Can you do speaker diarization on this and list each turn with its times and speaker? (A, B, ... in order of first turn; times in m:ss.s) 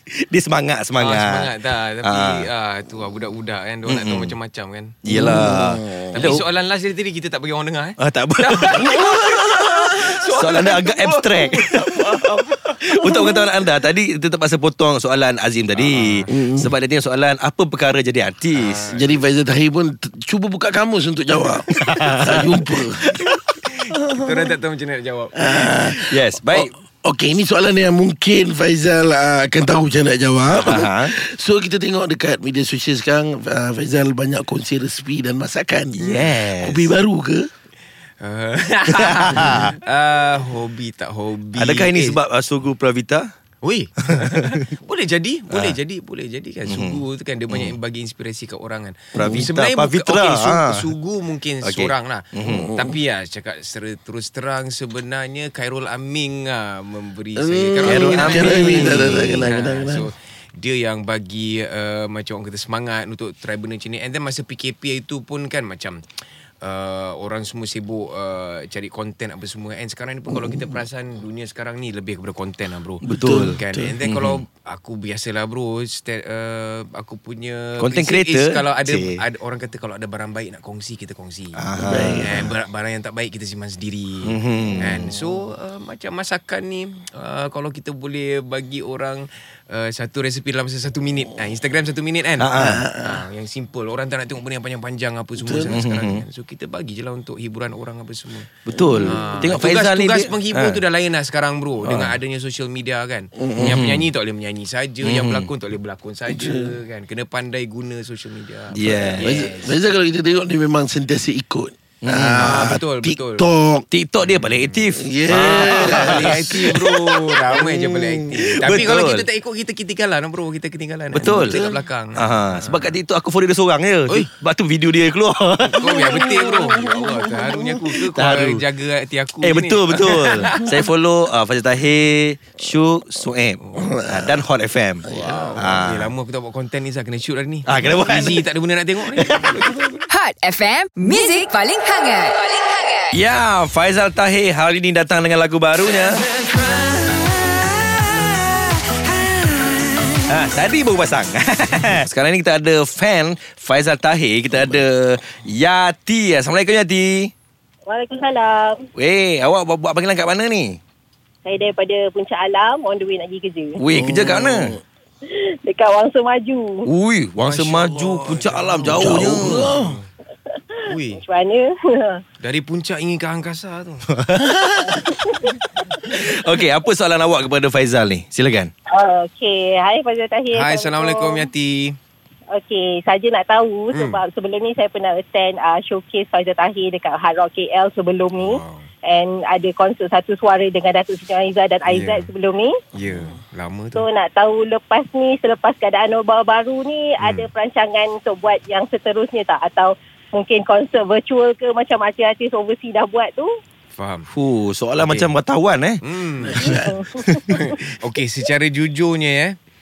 0:00.1-0:02.5 A
0:01.0-0:05.0 B
0:03.9-0:04.4 A
0:05.0-0:06.4 A
0:05.1-0:06.1 C
0:06.1-0:13.4 B
0:08.0-0:12.0 A
0:12.8-0:19.0 A
0:15.8-0:16.3 B
0:16.3-0:16.7 C
0:18.6-0:19.2 B
0:18.9-0:23.2 C
0:21.7-0:22.6 A
0:23.0-0:26.0 B
0:24.2-0:24.5 C
0:25.4-0:37.5 C
0:25.9-0:26.7 A
0:30.5-0:31.1 A
0:36.1-0:36.9 A
0:38.2-0:42.2 B
0:38.9-0:39.7 A
0:41.6-0:43.3 A
0:43.6-1:06.0 B
0:45.5-0:45.8 A
0:46.7-0:47.8 A
0:49.2-0:50.9 A
0:49.2-0:49.5 C
0:51.6-0:52.7 A
0:52.4-0:52.9 C
0:57.4-1:00.1 C
0:57.8-0:59.4 A
1:06.6-1:49.8 B
1:13.0-1:14.4 A
1:13.1-1:13.9 C
1:17.8-1:19.2 A
1:21.6-1:22.3 A
1:21.8-1:22.4 C
1:24.2-1:25.0 A
1:32.4-1:32.8 A
1:32.6-1:33.2 C
1:35.4-1:35.7 C
1:35.8-1:36.2 A
1:38.7-1:40.8 A
1:38.7-1:39.4 C
1:41.8-1:42.1 A
1:43.4-1:43.8 C
1:43.6-1:44.1 A
1:45.0-1:45.5 A
1:46.3-1:46.7 C
1:48.7-1:49.5 A
1:48.8-1:53.9 C
1:52.0-1:52.4 A
1:52.1-1:53.5 B
1:53.9-1:59.3 A
1:54.2-2:03.0 B
1:55.0-1:56.8 C
2:01.1-2:01.6 A
2:01.4-2:01.8 C
2:02.2-2:06.5 A
2:05.7-2:10.8 B
2:06.1-2:07.5 C
2:08.0-2:08.6 A
2:09.4-2:15.0 A
2:13.6-2:13.9 B
2:13.8-2:14.4 C
2:15.0-2:15.7 C
2:15.2-2:19.9 B
2:15.6-2:16.1 A
2:17.7-2:18.4 A
2:19.2-2:19.6 A
2:20.1-2:23.0 D
2:23.1-2:26.2 A
2:30.3-2:37.3 A
2:34.5-2:34.8 C
2:37.9-2:38.9 E
2:39.0-2:40.8 A
2:41.4-2:43.8 E
2:43.8-2:44.8 A
2:43.9-2:44.8 C
2:45.3-2:46.9 E
2:46.9-2:49.8 A
2:47.4-2:50.1 B
2:48.8-2:50.0 C
2:50.9-2:51.2 B
2:51.1-2:52.2 E
2:52.4-2:54.0 B
2:54.1-2:55.1 A
2:54.9-2:55.3 E
2:56.0-2:58.7 A
2:58.9-3:01.5 E
3:00.5-3:02.0 B
3:02.5-3:12.8 E
3:03.9-3:04.2 B
3:08.4-3:08.9 B
3:11.9-3:12.3 B
3:13.0-3:14.0 B
3:14.0-3:23.5 E
3:17.2-3:17.5 B
3:24.0-3:24.3 B
3:24.3-3:26.0 A
3:25.0-3:25.3 B
3:26.0-3:26.7 B
3:26.4-3:27.0 C
3:26.6-3:27.6 E
3:27.2-3:27.6 A
3:27.5-3:29.6 B